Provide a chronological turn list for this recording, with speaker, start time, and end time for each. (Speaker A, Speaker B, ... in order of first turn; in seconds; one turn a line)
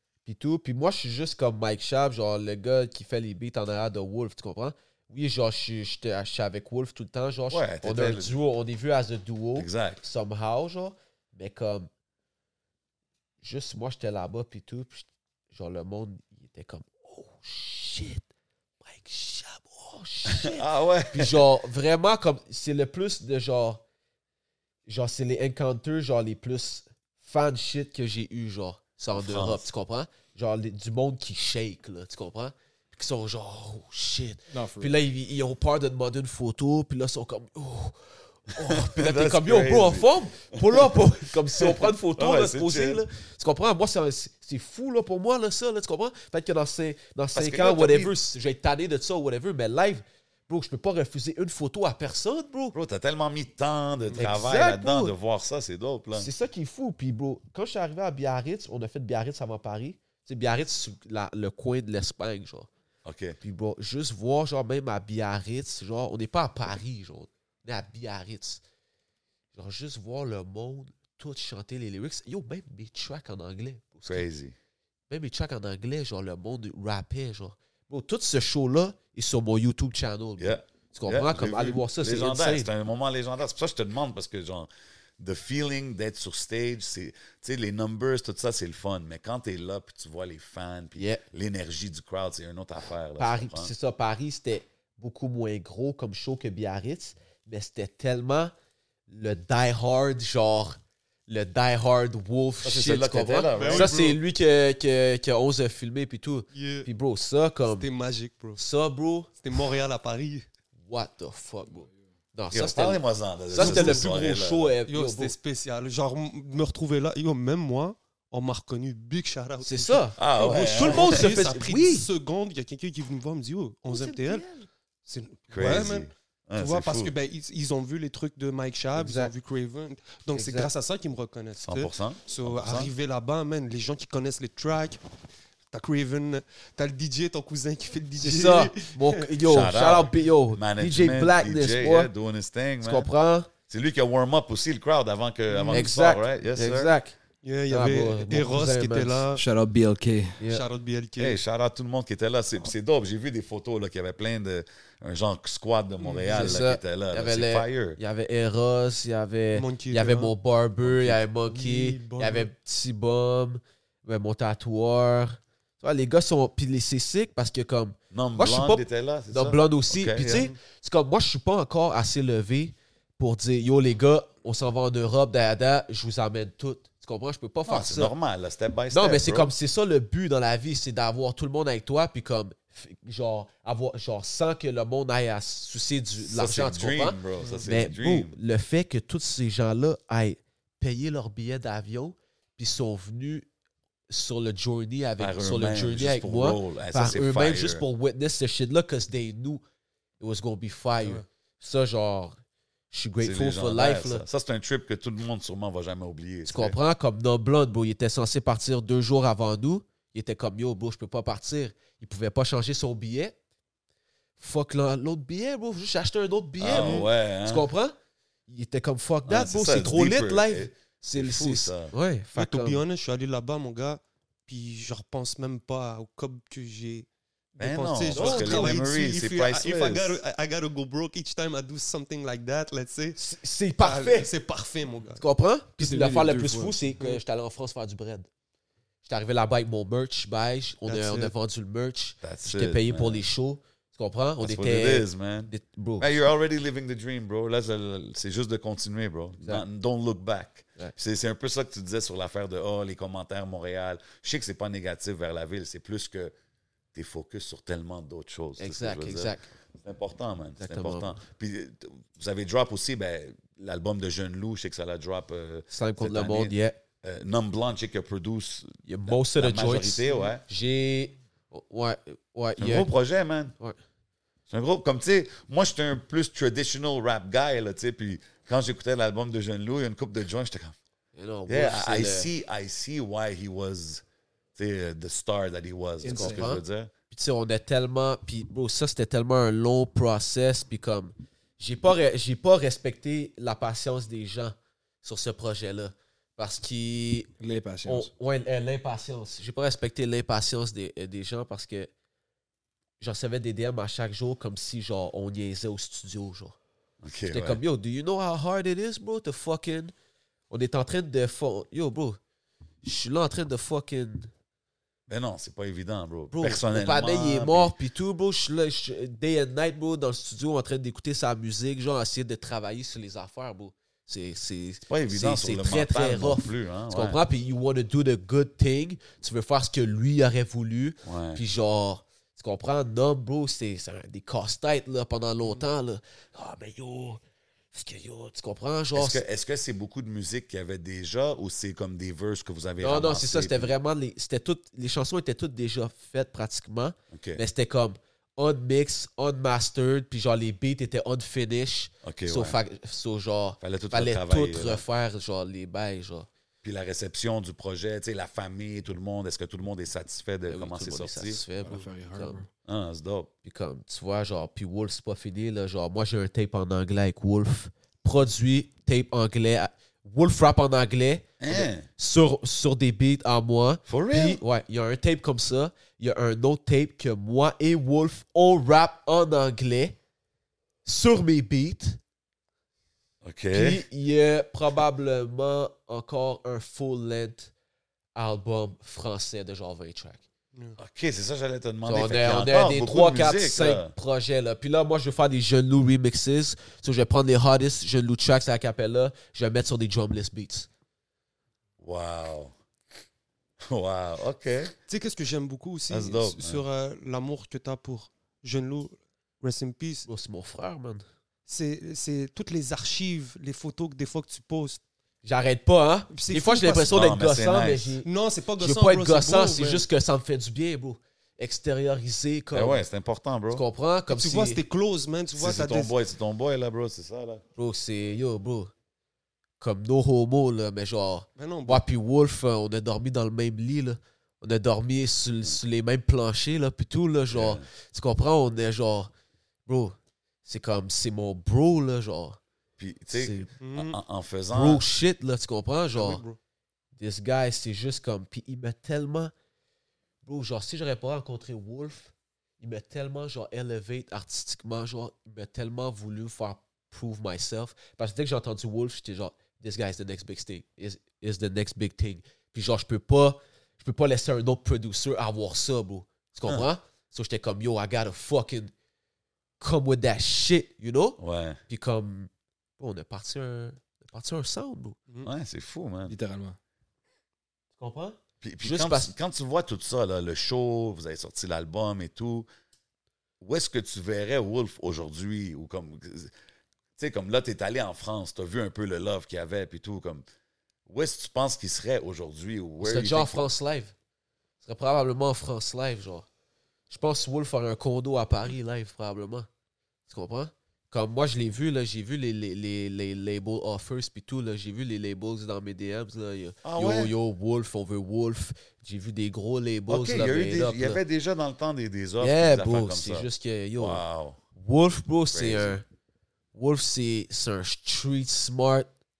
Speaker A: 0.2-11.9
Speaker B: 7.5-8.3
Speaker B: 9.5-10.0
Speaker A: 13.4-18.2
Speaker A: 18.8-23.8
Speaker B: 20.3-21.4
Speaker A: 24.9-52.7
Speaker B: 29.1-29.6
Speaker C: 34.5-35.0
Speaker B: 38.6-40.9
Speaker B: 41.5-43.0
Speaker B: 47.3-48.1
Speaker B: 52.7-56.3
Speaker A: 54.2-55.1
Speaker A: 56.1-62.7
Speaker B: 63.0-63.4
Speaker A: 63.4-68.6
Speaker A: 69.5-74.2
Speaker B: 74.0-74.5
Speaker A: 75.1-82.7
Speaker B: 80.4-84.7
Speaker B: 85.2-93.7
Speaker A: 91.0-91.2
Speaker A: 93.2-98.5
Speaker A: 99.1-107.9
Speaker B: 102.6-104.0
Speaker D: 103.5-104.2
Speaker D: 106.5-106.9
Speaker D: 107.7-108.6
Speaker A: 108.5-109.3
Speaker D: 109.4-110.4
Speaker A: 110.8-115.3
Speaker B: 112.5-114.7
Speaker D: 113.5-114.1
Speaker D: 114.9-124.5
Speaker A: 119.6-122.1
Speaker B: 120.2-121.3
Speaker A: 123.9-124.6
Speaker D: 125.0-135.0
Speaker B: 125.5-127.1
Speaker A: 128.9-129.3
Speaker A: 130.3-130.7
Speaker B: 131.6-132.9
Speaker D: 135.7-139.3
Speaker A: 138.2-142.1
Speaker B: 139.4-143.1
Speaker A: 142.8-143.5
Speaker B: 143.7-146.9
Speaker D: 145.5-145.9
Speaker A: 145.7-147.2
Speaker D: 147.4-149.4
Speaker A: 147.7-149.3
Speaker C: 149.3-150.4
Speaker A: 150.4-150.6
Speaker D: 150.4-151.4
Speaker B: 151.2-158.0
Speaker D: 156.0-156.6
Speaker A: 156.3-178.1
Speaker D: 159.5-160.3
Speaker D: 161.0-162.5
Speaker B: 168.1-170.5
Speaker B: 177.7-179.5
Speaker A: 178.9-193.4
Speaker B: 186.2-188.4
Speaker A: 194.1-199.6
Speaker B: 195.2-197.8
Speaker A: 200.2-202.4
Speaker A: 202.9-204.2
Speaker B: 203.2-206.7
Speaker A: 206.4-213.3
Speaker A: 214.4-217.9
Speaker B: 216.6-217.7
Speaker A: 218.5-222.8
Speaker B: 219.2-221.9
Speaker D: 222.3-233.2
Speaker B: 227.6-230.2
Speaker A: 228.1-228.8
Speaker A: 233.2-234.3
Speaker D: 233.8-235.2
Speaker A: 235.2-238.3
Speaker C: 235.8-236.8
Speaker A: 239.0-246.1
Speaker D: 240.9-241.3
Speaker B: 242.2-243.2
Speaker B: 244.4-256.3
Speaker B: 256.9-270.4
Speaker A: 258.6-259.5
Speaker A: 260.6-261.1
Speaker A: 265.7-266.8
Speaker A: 268.9-272.9
Speaker B: 272.6-273.5
Speaker B: 274.5-280.7
Speaker A: 281.1-282.3
Speaker B: 281.5-284.0
Speaker B: 284.6-286.9
Speaker C: 286.0-286.5
Speaker A: 286.0-297.3
Speaker C: 297.4-298.1
Speaker A: 297.9-301.9
Speaker A: 303.0-306.6
Speaker B: 307.0-307.6
Speaker A: 307.3-309.9
Speaker A: 310.5-312.2
Speaker A: 312.8-314.3
Speaker B: 315.1-317.7
Speaker A: 316.3-337.2
Speaker B: 324.9-327.2
Speaker B: 331.0-331.4
Speaker A: 337.7-339.2
Speaker B: 338.9-343.7
Speaker A: 342.8-356.3
Speaker B: 347.1-347.4
Speaker B: 352.0-352.6
Speaker B: 353.6-354.8
Speaker B: 356.6-361.4
Speaker A: 360.5-362.4
Speaker C: 361.6-362.5
Speaker B: 362.6-363.3
Speaker A: 363.4-379.9
Speaker B: 371.4-371.9
Speaker B: 373.9-374.4
Speaker A: 380.8-382.0
Speaker B: 383.2-383.8
Speaker A: 383.5-387.5
Speaker A: 388.1-390.2
Speaker B: 390.8-393.9
Speaker A: 391.9-400.7
Speaker B: 401.8-402.5
Speaker B: 403.6-404.7
Speaker D: 404.9-410.1
Speaker B: 405.9-406.6
Speaker A: 410.1-411.0
Speaker D: 411.5-414.8
Speaker A: 415.2-422.8
Speaker D: 416.1-416.9
Speaker B: 416.9-417.9
Speaker D: 418.0-419.8
Speaker B: 422.5-423.6
Speaker A: 423.5-424.6
Speaker D: 424.1-425.9
Speaker B: 425.3-427.4
Speaker A: 427.6-428.7
Speaker A: 429.6-439.1
Speaker D: 431.4-431.8
Speaker B: 437.3-437.6
Speaker A: 439.6-442.4
Speaker B: 442.8-444.8
Speaker A: 443.1-443.5
Speaker D: 443.6-444.0
Speaker A: 444.5-446.2
Speaker D: 445.9-446.4
Speaker A: 446.9-449.3
Speaker A: 450.2-468.7
Speaker A: 469.6-475.0
Speaker B: 471.2-471.6
Speaker B: 475.2-476.1
Speaker C: 476.1-476.6
Speaker A: 477.8-479.1
Speaker B: 478.4-482.5
Speaker B: 483.4-486.3
Speaker B: 487.0-490.2
Speaker B: 490.9-493.4
Speaker A: 492.8-493.9
Speaker A: 494.6-496.2
Speaker A: 496.9-499.5
Speaker A: 500.1-511.0
Speaker B: 506.6-507.1
Speaker B: 509.9-513.3
Speaker A: 512.2-514.0
Speaker B: 513.8-514.4
Speaker A: 514.5-515.8
Speaker B: 515.3-515.8
Speaker A: 516.5-518.9